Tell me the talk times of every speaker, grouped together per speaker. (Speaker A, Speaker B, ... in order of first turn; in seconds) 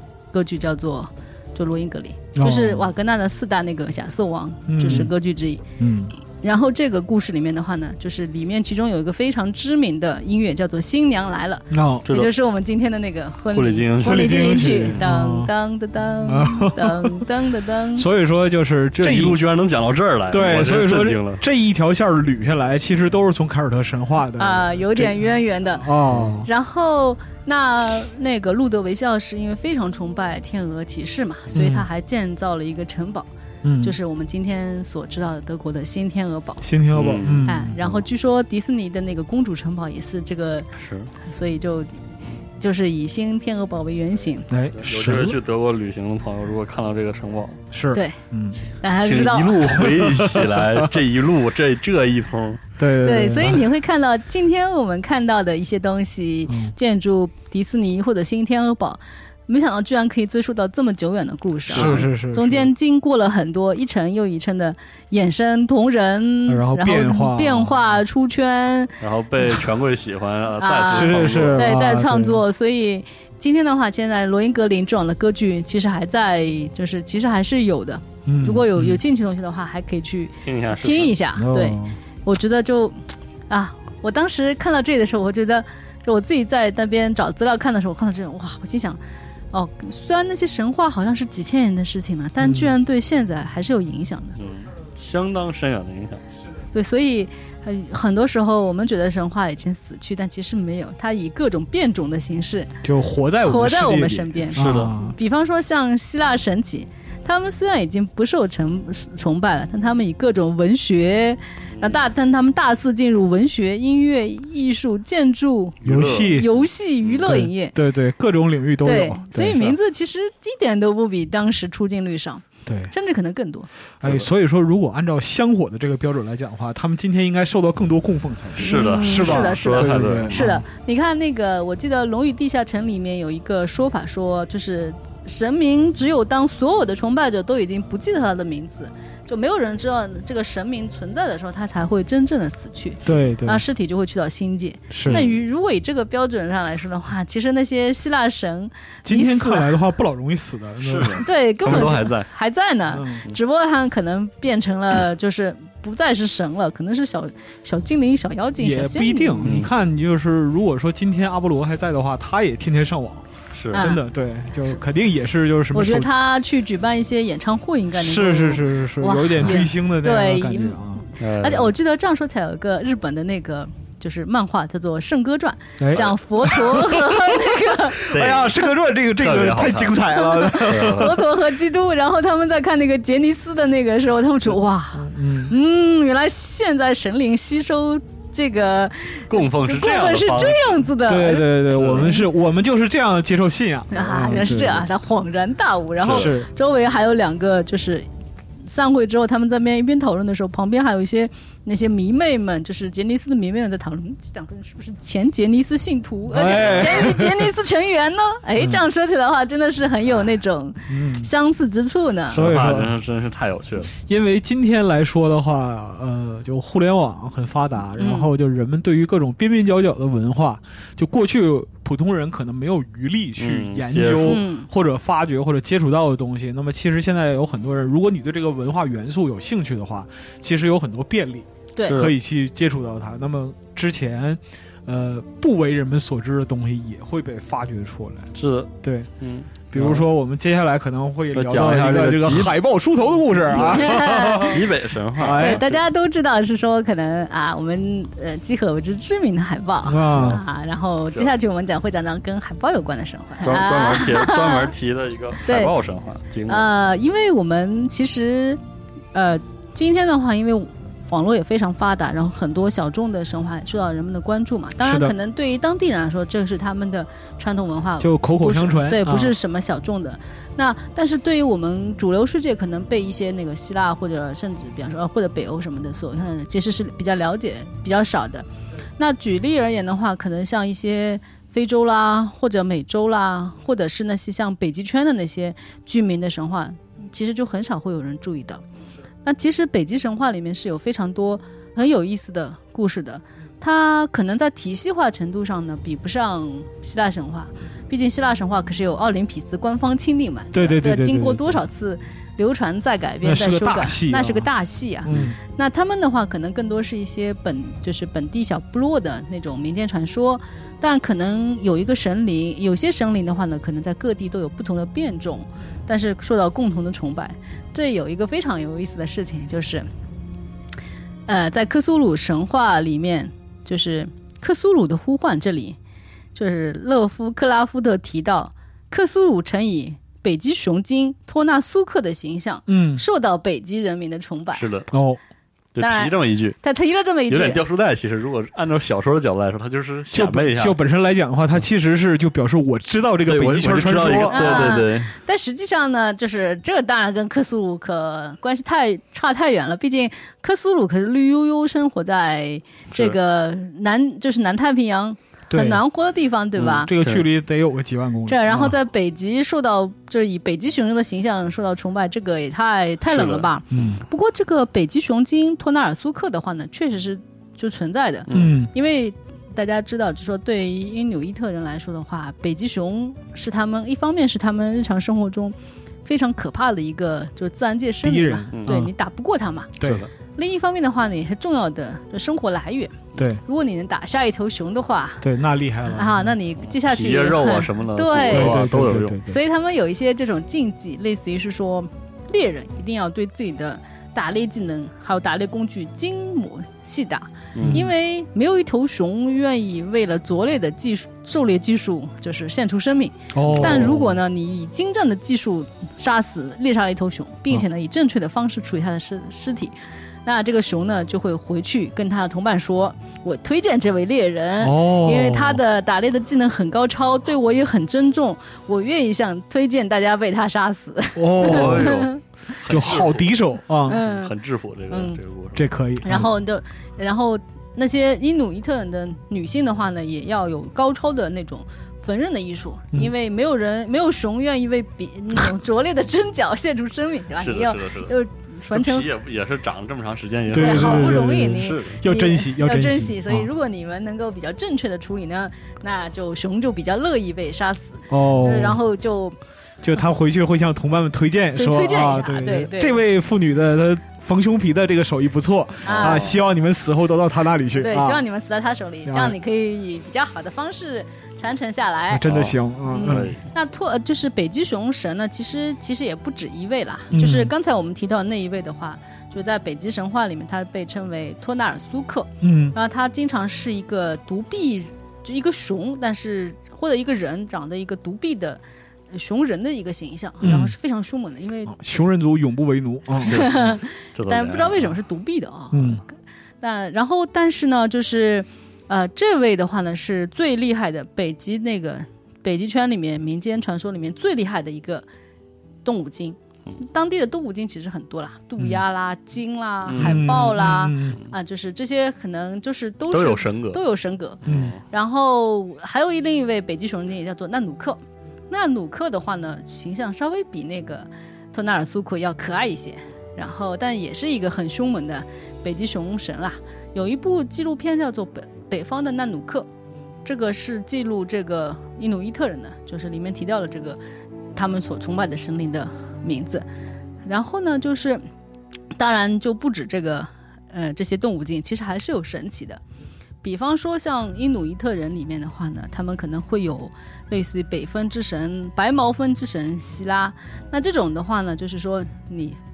Speaker A: 0.3-5.6, 6.4-18.1, 24.4-25.9, 26.4-33.3, 33.8-36.7, 37.4-40.7, 41.2-42.0, 42.6-44.5, 47.9-48.2, 48.8-49.9, 53.0-69.0, 70.6-89.0, 89.5-94.4, 96.7-102.8, 103.4-117.8, 118.8-123.7, 128.6-149.8, 151.2-159.6, 163.7-164.0, 165.7-178.0, 180.1-192.2, 193.9-198.1, 198.7-212.4, 218.0-218.3, 224.2-224.7, 231.7-232.0, 243.5-244.6, 245.3-254.7, 255.4-255.7, 256.5-258.6, 259.1-288.6, 289.2-319.9, 321.3-325.8, 326.3-334.7, 335.8-337.6, 344.2-356.9, 358.3-379.8, 380.3-385.3, 385.9-388.7, 389.2-409.7, 410.2-422.2, 423.9-424.3, 424.9-425.2, 426.0-439.1, 440.5-449.4, 451.6-453.0, 455.9-456.3, 457.7-462.2, 462.9-481.8, 483.2-486.0, 486.6-495.1, 495.8-519.7, 520.2-524.0, 524.5-526.6, 527.2-528.2, 528.9-532.8, 533.4-542.6
Speaker B: 2.3-2.8, 4.7-5.1, 5.8-6.1, 11.7-12.1, 14.0-15.5, 16.2-17.3, 17.9-19.4, 20.3-25.2, 25.8-26.5, 31.5-31.9, 33.6-34.0, 36.6-37.8, 44.5-45.4, 47.7-48.6, 49.8-50.9, 52.8-53.6, 56.5-56.7, 61.7-62.7, 66.5-67.7, 70.9-72.4, 78.2-79.0, 81.3-82.0, 92.4-92.7, 102.8-105.2, 115.8-116.5, 117.2-119.8, 122.7-122.9, 124.0-130.6, 143.0-143.6, 144.9-145.2, 149.0-151.9, 152.9-153.2, 158.6-166.1, 167.9-171.0, 175.8-181.2, 185.0-185.5, 191.0-194.8, 196.0-196.5, 206.3-207.5, 210.9-211.3, 212.3-212.9, 214.0-239.1, 239.7-245.6, 249.8-250.4, 264.8-265.1, 268.0-269.4, 300.5-301.6, 303.2-304.5, 305.0-305.4, 332.7-333.0, 334.9-335.2, 340.1-344.8, 355.5-355.8, 356.6-358.8, 363.7-364.0, 368.3-368.7, 378.0-378.9, 379.8-380.0, 383.1-383.4, 385.2-386.3, 388.3-389.4, 397.6-397.9, 403.3-404.0, 414.6-415.6, 421.1-422.0, 422.6-424.0, 425.5-426.3, 440.5-443.5, 448.1-448.8, 449.8-458.2, 459.1-459.4, 462.1-463.3, 467.1-467.5, 472.4-472.8, 480.4-480.8, 481.7-483.4, 485.7-486.0, 500.0-501.2, 504.4-504.8
Speaker C: 12.1-12.3, 13.5-14.4, 18.9-21.4, 26.1-26.3, 36.9-38.0, 40.8-41.1, 44.7-47.6, 49.0-52.6, 61.7-62.1, 69.0-71.7, 80.4-81.2, 94.4-96.2, 104.5-105.0, 111.7-112.0, 115.8-117.3, 124.0-124.3, 128.6-130.5, 145.0-145.3, 150.8-152.3, 159.4-159.7, 163.5-163.9, 171.2-171.7, 178.1-178.6, 179.2-180.1, 180.6-181.2, 189.3-190.8, 191.7-192.2, 196.0-196.3, 212.3-213.9, 223.4-224.4, 231.8-232.1, 238.3-240.1, 241.3-242.6, 243.5-245.8, 250.1-250.4, 253.4-256.7, 334.5-334.9, 335.8-336.6, 337.3-340.8, 343.2-345.1, 356.6-357.2, 363.1-363.5, 368.3-368.5, 378.5-378.8, 379.8-380.1, 386.7-389.2, 397.5-397.9, 403.5-404.1, 421.4-423.4, 423.9-425.7, 437.4-438.1, 438.7-442.0, 455.9-456.4, 462.2-463.4, 483.2-484.9, 499.9-500.3, 503.1-503.8, 504.4-504.8